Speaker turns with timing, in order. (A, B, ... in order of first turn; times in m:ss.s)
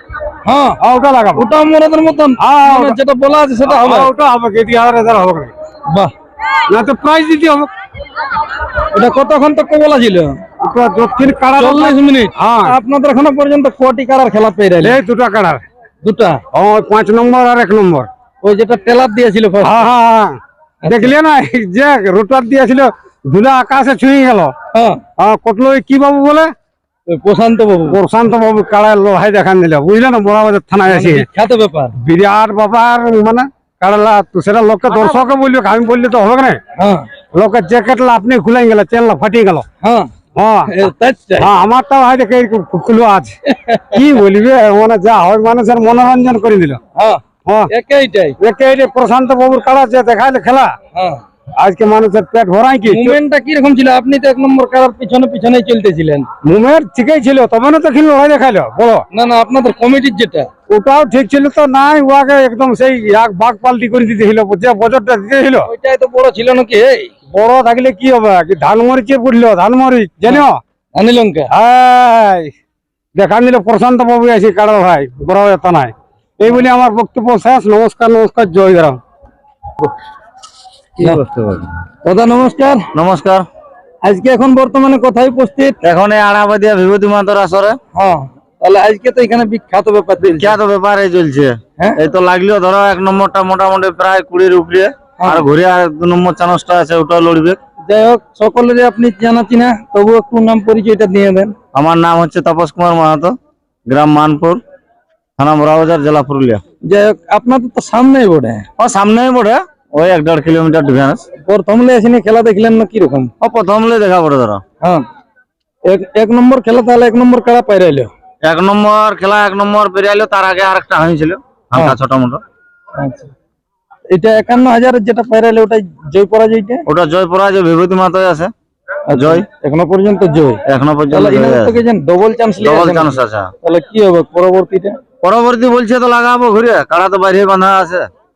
0:00.4-0:00.8 A
0:00.8-0:01.4 B
0:01.4-0:04.1 A
0:02.4-0:03.0 B
0:03.6-0:05.5 B
0:06.7-0:07.7 B
0:08.9-0:10.4 A
0:10.6-0:12.7 B
0:11.6-0:15.0 A
0:14.8-0:15.6 B
0:16.0-0:16.4 A
0:16.5-0:18.1 B
0:18.4-0:19.8 A
0:19.6-0:24.5 B
0:20.8-0:21.1 A
0:24.7-0:25.0 A
0:25.2-0:26.5 B
0:27.1-0:28.0 A
0:27.9-0:31.3 B
0:30.9-0:31.9 A
0:32.0-0:36.6 B
0:36.8-0:37.1 A
0:37.3-0:39.6 B
0:39.8-0:40.1 A
0:40.4-0:40.7 B
0:40.7-0:41.5 A
0:41.4-0:43.3 B
0:43.5-0:44.0 A
0:43.9-0:46.8 B
0:46.9-0:48.4 A
0:48.4-0:50.7 B
0:50.9-0:51.2 A
0:51.6-0:53.2 B
0:52.9-0:56.3 A
0:56.4-0:59.0 B
0:59.1-1:00.5 A
1:00.7-1:05.7 B
1:05.6-1:07.2 A
1:07.3-1:10.6 B
1:11.0-1:11.5 A
1:11.5-1:12.5 B
1:13.1-1:19.0 B
1:21.0-1:21.8 C
1:22.0-1:22.9 A
1:22.9-1:23.4 C
1:24.0-1:25.8 A
1:25.8-1:27.8 C
1:27.9-1:30.6 A
1:30.2-1:37.6 C
1:35.2-1:35.4 A
1:37.9-1:41.5 A
1:41.7-1:43.3 C
1:43.9-1:44.6 C
1:45.4-1:46.6 C
1:46.8-1:48.7 A
1:48.8-1:51.2 C
1:51.4-1:53.3 A
1:53.4-1:54.6 C
1:55.9-1:58.1 A
1:58.4-2:02.4 C
2:03.0-2:03.3 A
2:04.1-2:06.8 A
2:06.9-2:08.5 C
2:09.1-2:15.0 A
2:09.1-2:09.4 C
2:10.6-2:11.8 C
2:12.6-2:13.5 C
2:15.2-2:18.1 C